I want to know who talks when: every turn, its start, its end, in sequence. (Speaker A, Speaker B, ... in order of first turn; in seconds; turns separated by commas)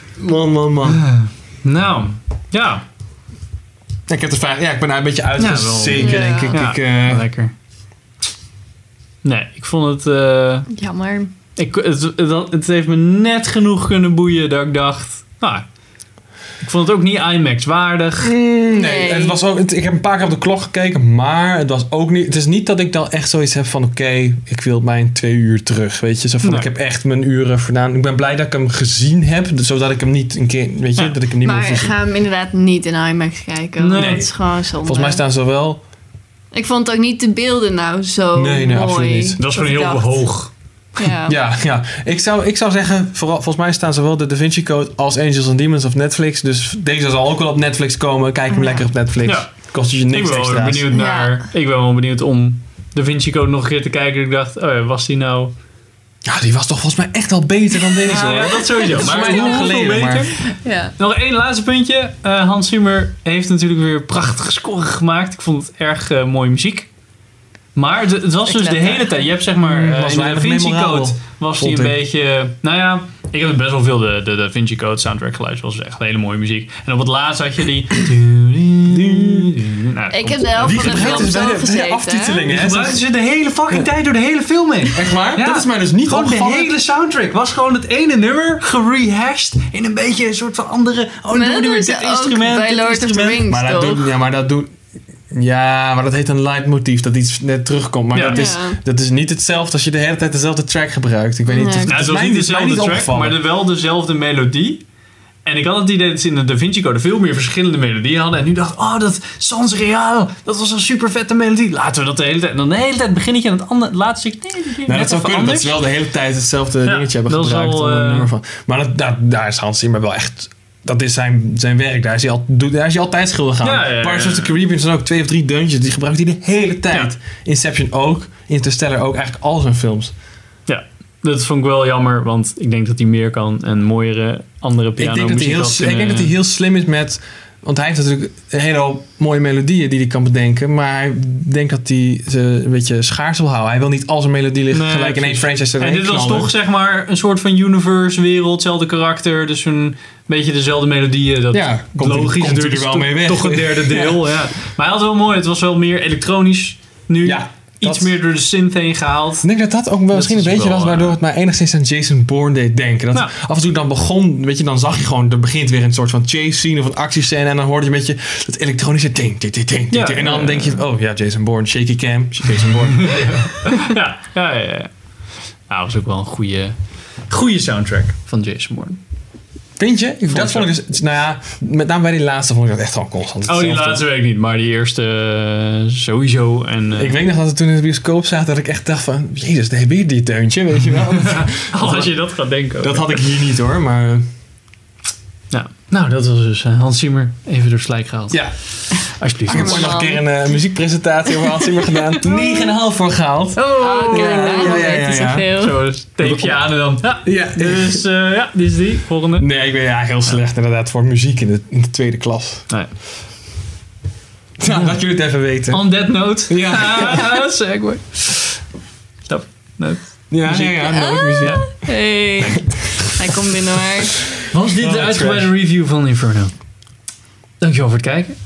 Speaker A: 0.2-1.0, Speaker B: 0.9-2.8, Speaker A: 4.1-7.3, Speaker B: 5.4-7.5, Speaker C: 6.0-6.6, Speaker B: 9.2-10.7, Speaker C: 10.7-11.3, Speaker B: 11.6-15.7, Speaker B: 16.6-18.3, Speaker A: 18.2-31.9, Speaker C: 18.7-19.4, Speaker B: 26.4-26.7, Speaker C: 31.4-35.2, Speaker B: 33.8-34.2, Speaker A: 34.0-34.3, Speaker A: 34.8-35.8, Speaker C: 36.5-40.3, Speaker A: 38.4-39.4, Speaker B: 39.4-40.5, Speaker C: 41.0-41.4, Speaker A: 41.3-50.9, Speaker C: 48.5-48.8, Speaker B: 49.2-49.5, Speaker B: 50.1-55.5, Speaker C: 50.9-51.4, Speaker A: 56.3-60.3, Speaker B: 58.0-60.4, Speaker C: 58.8-59.7, Speaker C: 60.6-60.9, Speaker B: 61.0-66.9, Speaker B: 67.8-81.3, Speaker C: 68.5-69.2, Speaker A: 69.6-72.0, Speaker A: 78.9-79.6, Speaker C: 80.1-82.5, Speaker A: 80.6-83.0, Speaker B: 82.5-93.4, Speaker A: 84.9-86.7, Speaker C: 91.3-94.1, Speaker A: 93.5-94.8, Speaker A: 95.3-103.4, Speaker B: 98.1-98.4, Speaker C: 98.3-98.8, Speaker C: 101.5-102.0, Speaker B: 101.9-104.8, Speaker B: 105.5-115.8, Speaker A: 114.9-130.1, Speaker B: 116.9-118.3, Speaker B: 123.6-124.5, Speaker B: 130.7-136.3, Speaker A: 135.0-146.5, Speaker B: 144.7-159.5, Speaker A: 151.5-154.2, Speaker A: 157.2-158.1, Speaker A: 159.4-173.4, Speaker B: 160.1-161.2, Speaker B: 169.9-170.8, Speaker B: 172.9-174.9, Speaker B: 175.7-176.8, Speaker B: 177.3-179.0, Speaker A: 179.8-184.0, Speaker B: 180.3-180.7, Speaker B: 183.5-187.2, Speaker A: 187.0-192.2, Speaker B: 191.2-193.2, Speaker A: 192.8-194.2, Speaker B: 195.5-198.5, Speaker B: 199.0-200.0, Speaker C: 199.5-200.2, Speaker A: 199.5-205.5, Speaker C: 202.2-202.7, Speaker B: 203.6-204.9, Speaker C: 203.6-205.8, Speaker B: 205.6-209.5, Speaker A: 206.2-206.6, Speaker A: 207.2-208.0, Speaker A: 209.4-212.7, Speaker A: 214.6-215.8, Speaker B: 214.7-215.0, Speaker B: 215.7-218.6, Speaker A: 216.5-217.3, Speaker B: 219.3-221.6, Speaker A: 220.3-221.7, Speaker C: 220.8-224.2, Speaker A: 222.4-223.1, Speaker B: 224.5-226.5, Speaker A: 224.7-225.5, Speaker B: 227.6-228.4